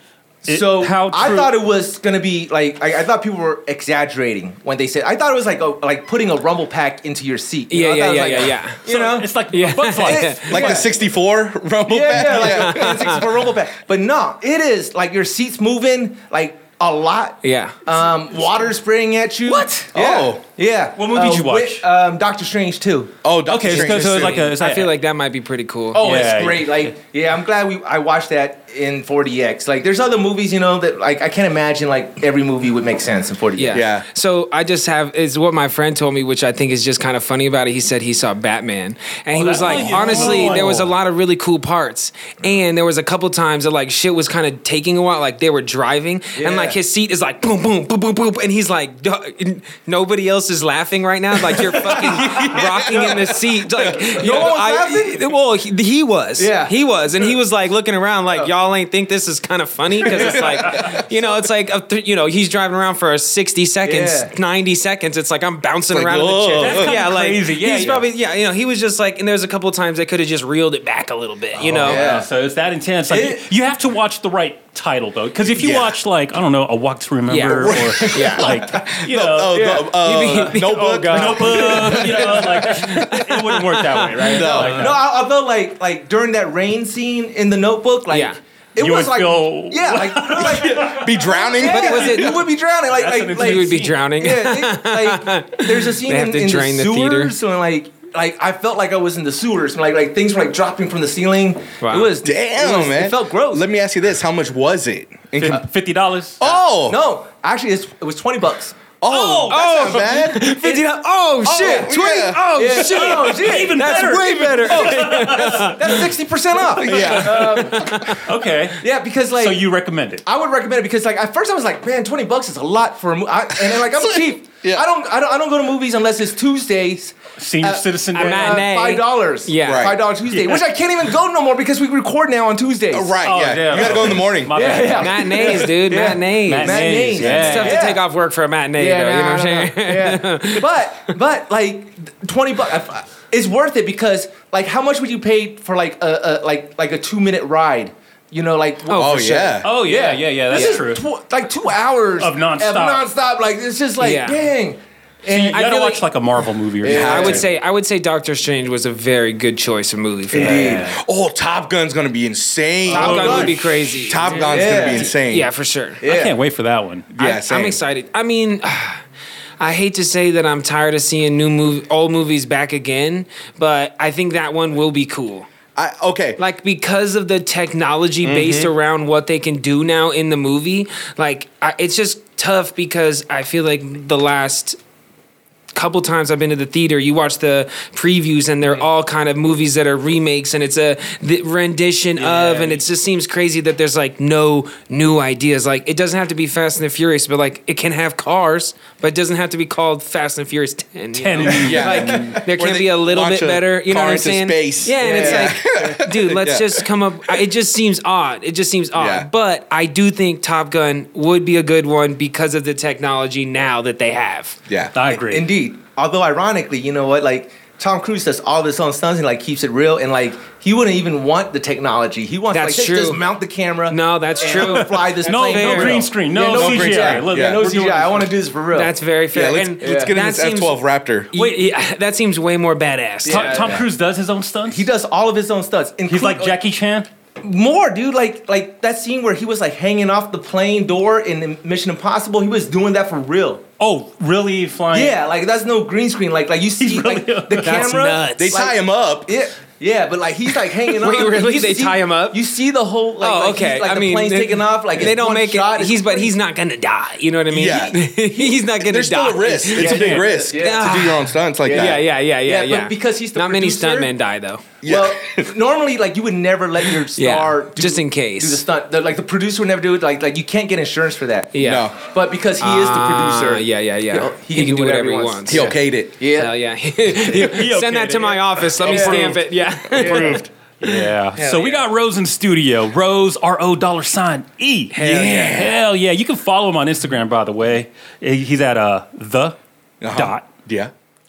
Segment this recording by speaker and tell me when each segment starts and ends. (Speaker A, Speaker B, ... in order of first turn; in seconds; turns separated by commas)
Speaker A: 0.5-1.5, Speaker B: 0.5-9.3, Speaker C: 7.7-8.8, Speaker A: 8.9-10.8, Speaker C: 9.5-10.5, Speaker B: 10.1-10.9, Speaker D: 10.5-13.2, Speaker B: 11.9-23.1, Speaker C: 12.4-13.2, Speaker C: 17.4-17.8, Speaker A: 19.5-19.8, Speaker D: 19.9-20.4, Speaker A: 21.0-21.8, Speaker D: 23.2-24.4, Speaker A: 23.5-24.9, Speaker C: 24.0-26.1, Speaker B: 25.9-33.8, Speaker A: 26.0-26.9, Speaker C: 33.6-72.0, Speaker D: 33.7-34.1, Speaker A: 39.4-40.9, Speaker B: 39.7-40.6, Speaker B: 46.4-46.8, Speaker D: 52.0-54.1, Speaker B: 54.2-55.3, Speaker B: 56.4-56.8, Speaker B: 60.0-61.0, Speaker B: 63.9-64.3, Speaker D: 65.9-66.9, Speaker A: 66.6-68.1, Speaker D: 71.7-72.0, Speaker A: 71.8-79.6, Speaker B: 71.8-72.3, Speaker B: 73.1-73.4, Speaker D: 75.5-76.0, Speaker C: 77.3-78.5, Speaker D: 77.4-82.4, Speaker C: 79.5-84.4, Speaker A: 81.1-85.0, Speaker B: 84.3-103.7, Speaker D: 84.3-84.9, Speaker C: 88.1-88.4, Speaker A: 88.8-94.0, Speaker D: 90.7-92.3, Speaker C: 91.6-92.3, Speaker C: 93.4-97.3, Speaker C: 101.8-102.1, Speaker D: 102.2-105.6, Speaker A: 105.4-106.4, Speaker D: 106.4-107.0, Speaker B: 106.4-108.9, Speaker D: 109.0-110.6, Speaker A: 109.1-109.6, Speaker C: 109.5-115.9, Speaker D: 111.4-112.5, Speaker B: 111.6-111.9, Speaker B: 112.5-114.1, Speaker A: 112.8-116.1, Speaker B: 114.7-118.0, Speaker A: 116.8-117.6, Speaker D: 116.8-117.8, Speaker C: 117.3-118.2, Speaker A: 118.2-120.2, Speaker B: 118.8-119.7, Speaker B: 120.3-133.1, Speaker D: 123.7-124.1, Speaker A: 127.4-128.7, Speaker C: 128.1-129.9, Speaker D: 129.6-130.0, Speaker A: 130.3-130.7, Speaker D: 132.9-134.9, Speaker A: 133.2-138.0, Speaker B: 134.5-138.0, Speaker C: 135.0-140.7, Speaker D: 137.2-137.8, Speaker B: 138.8-156.0, Speaker C: 148.9-149.5, Speaker D: 149.0-149.7, Speaker A: 149.6-151.0, Speaker C: 150.5-150.8, Speaker A: 152.2-153.1, Speaker C: 154.0-154.4, Speaker A: 155.2-157.4, Speaker B: 156.8-157.4, Speaker D: 156.8-157.4, Speaker C: 157.0-160.8, Speaker B: 160.3-160.9, Speaker A: 160.4-161.0, Speaker D: 160.8-165.5, Speaker B: 162.9-165.1, Speaker C: 162.9-166.0, Speaker A: 162.9-163.6, Speaker B: 166.0-166.3, Speaker A: 166.0-167.1, Speaker D: 167.2-167.8, Speaker C: 167.2-169.0, Speaker C: 169.6-175.5, Speaker D: 175.8-176.4, Speaker C: 176.4-184.8, Speaker D: 178.2-178.7, Speaker C: 185.7-214.6, Speaker A: 192.2-192.8, Speaker A: 201.1-202.4, Speaker D: 201.4-207.4, Speaker B: 205.0-205.6, Speaker D: 208.9-209.3, Speaker D: 214.7-214.9, Speaker A: 214.9-215.5, Speaker B: 215.1-230.1, Speaker C: 222.5-223.2, Speaker C: 223.9-226.0, Speaker A: 224.4-228.4, Speaker D: 226.5-227.7, Speaker C: 228.7-230.8, Speaker D: 229.3-231.3, Speaker C: 231.3-233.6, Speaker A: 231.3-231.6, Speaker B: 233.2-233.9, Speaker A: 233.3-234.9, Speaker B: 234.7-236.6, Speaker A: 236.1-237.1, Speaker B: 237.4-243.6, Speaker A: 243.8-245.2, Speaker B: 244.9-256.3, Speaker A: 246.8-248.1, Speaker C: 247.6-248.5, Speaker D: 248.4-249.3, Speaker C: 251.0-252.4, Speaker C: 253.2-264.6, Speaker D: 257.5-262.0, Speaker B: 259.8-260.9, Speaker A: 259.8-260.2, Speaker B: 261.6-264.1, Speaker D: 264.8-265.5, Speaker B: 264.9-276.5, Speaker C: 267.1-268.6, Speaker C: 271.5-271.9, Speaker D: 271.6-272.0, Speaker C: 272.6-275.8, Speaker D: 275.5-276.1, Speaker C: 276.3-281.0, Speaker A: 277.3-279.4, Speaker B: 278.8-279.4, Speaker B: 279.9-280.5, Speaker A: 280.0-289.6, Speaker B: 281.4-281.8, Speaker C: 284.9-285.6, Speaker D: 285.0-285.8, Speaker D: 290.0-290.9, Speaker A: 290.1-290.5